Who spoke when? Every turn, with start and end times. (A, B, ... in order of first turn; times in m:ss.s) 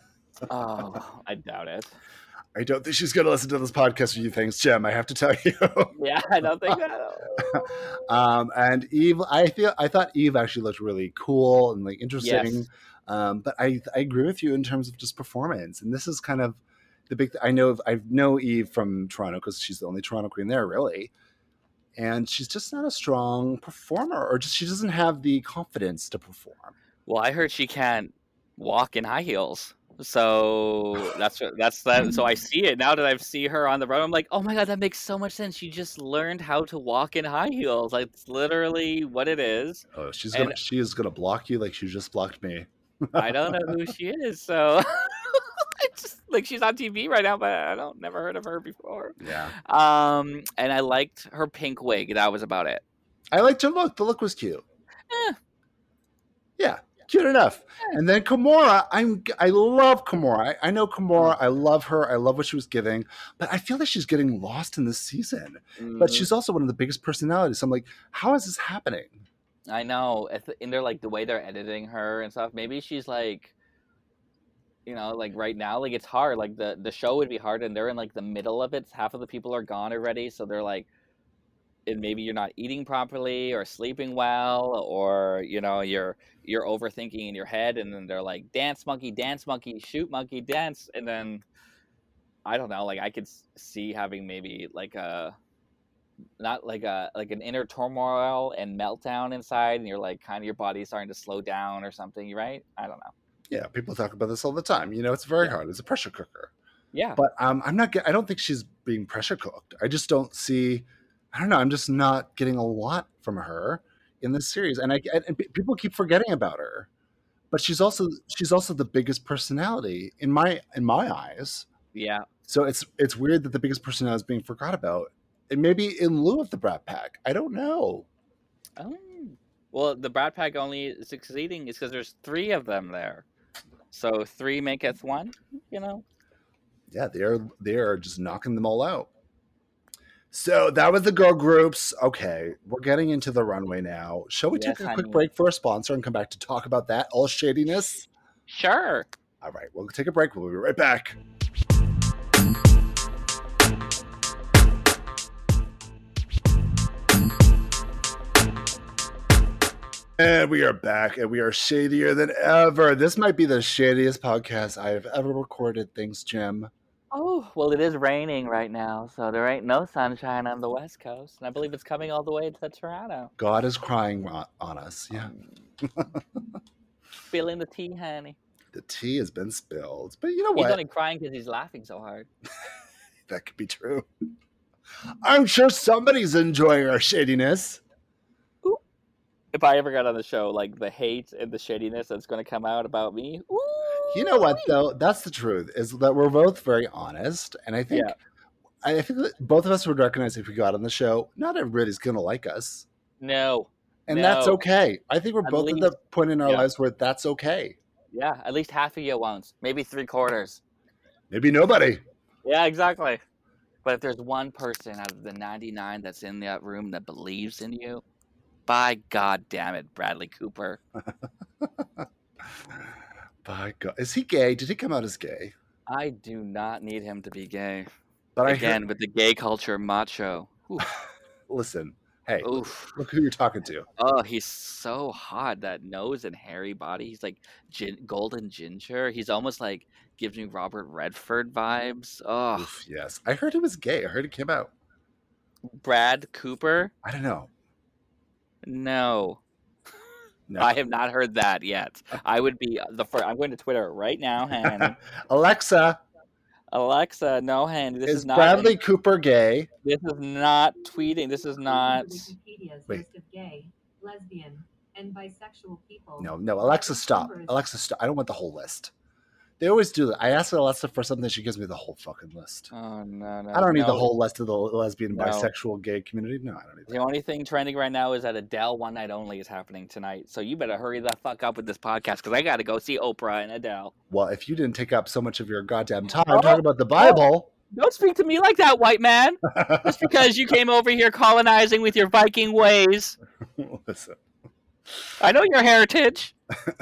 0:00.5-0:01.9 A
0:02.5-0:05.9 B
0:05.9-0:07.9 A
0:07.4-0:21.1 B
0:12.2-0:12.6 A
0:22.0-0:26.7 B
0:27.0-0:40.6 A
0:39.9-0:43.8 B
0:43.1-0:52.8 A
0:49.2-0:49.5 B
0:53.3-0:54.6 B
0:55.1-0:55.4 A
0:56.6-1:09.2 B
1:05.8-1:06.3 A
1:09.7-1:13.5 A
1:14.8-1:20.9 A
1:21.8-1:31.4 A
1:32.4-1:35.4 A
1:36.4-1:43.1 A
1:43.5-1:46.5 B
1:46.9-1:47.2 A
1:47.2-1:56.9 B
1:57.5-2:01.7 B
2:01.9-2:02.3 A
2:02.4-2:08.1 B
2:08.8-2:13.2 A
2:13.9-2:16.0 A
2:16.9-2:19.1 B
2:20.3-2:28.1 B
2:24.5-2:25.3 A
2:28.5-2:29.1 A
2:29.4-2:31.2 B
2:40.2-2:46.7 B
2:47.1-2:53.3 A
2:53.4-2:55.3 B
2:55.1-2:55.4 A
2:55.8-2:56.2 B
2:57.3-2:58.4 A
2:58.7-3:00.8 B
3:00.5-3:02.3 A
3:03.3-3:04.0 B
3:05.2-3:07.8 B
3:09.5-3:14.7 A
3:14.1-3:18.1 B
3:17.9-3:18.2 A
3:18.8-3:22.8 B
3:23.2-3:24.6 A
3:24.1-3:27.8 B
3:25.4-3:26.7 A
3:28.1-3:30.6 A
3:31.3-3:32.0 B
3:32.4-3:33.2 A
3:33.8-3:38.0 A
3:38.7-3:40.8 A
3:41.6-3:42.0 B
3:43.4-3:45.5 B
3:45.9-3:47.9 A
3:48.4-3:48.8 B
3:48.4-3:50.9 A
3:51.5-3:53.9 B
3:52.4-3:52.9 A
3:54.0-4:02.7 A
4:02.5-4:04.7 B
4:05.6-4:06.9 A
4:07.0-4:07.5 B
4:08.6-4:09.4 A
4:10.5-4:10.8 B
4:10.6-4:15.0 A
4:14.6-4:16.0 B
4:16.7-4:18.8 A
4:18.0-4:19.7 B
4:19.8-4:22.3 A
4:21.5-4:27.6 C
4:26.2-4:28.9 B
4:29.6-4:32.7 B
4:32.7-4:34.1 A
4:33.5-4:37.0 B
4:35.1-4:35.5 A
4:36.9-4:43.9 A
4:44.1-4:47.5 B
4:46.2-4:53.2 A
4:49.5-4:49.9 B
4:53.6-4:54.2 B
4:55.2-4:56.3 A